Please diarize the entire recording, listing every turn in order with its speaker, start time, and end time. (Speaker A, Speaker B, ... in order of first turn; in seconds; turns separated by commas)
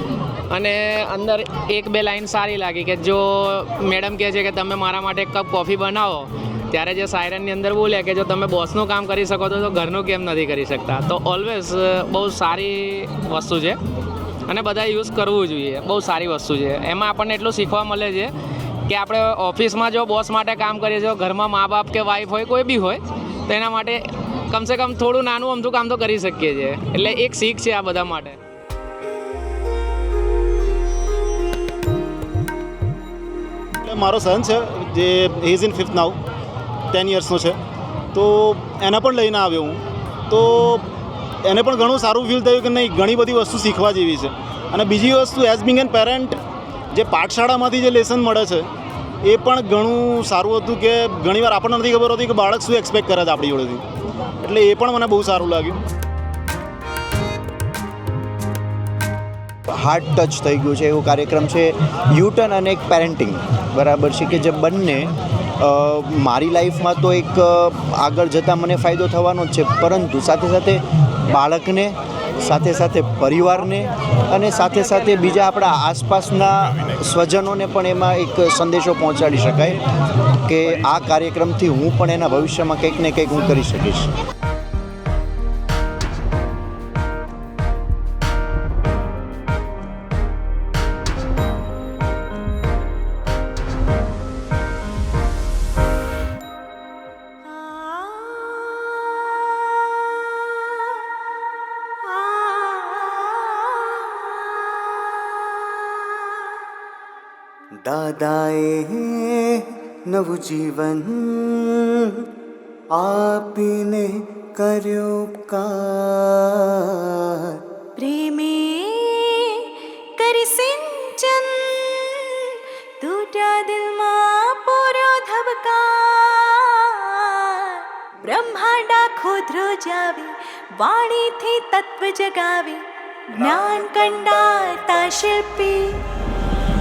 Speaker A: 0.5-13.8, Speaker A: 14.5-18.3, Speaker A: 18.9-28.4, Speaker B: 33.8-36.2, Speaker B: 36.9-37.6, Speaker B: 38.1-40.8, Speaker B: 41.4-46.4, Speaker B: 46.9-48.7, Speaker B: 49.2-53.8, Speaker B: 54.4-55.8, Speaker C: 59.8-84.1, Speaker D: 97.6-98.9, Speaker D: 102.1-104.0, Speaker E: 107.8-112.3, Speaker E: 113.0-117.6, Speaker D: 118.0-136.0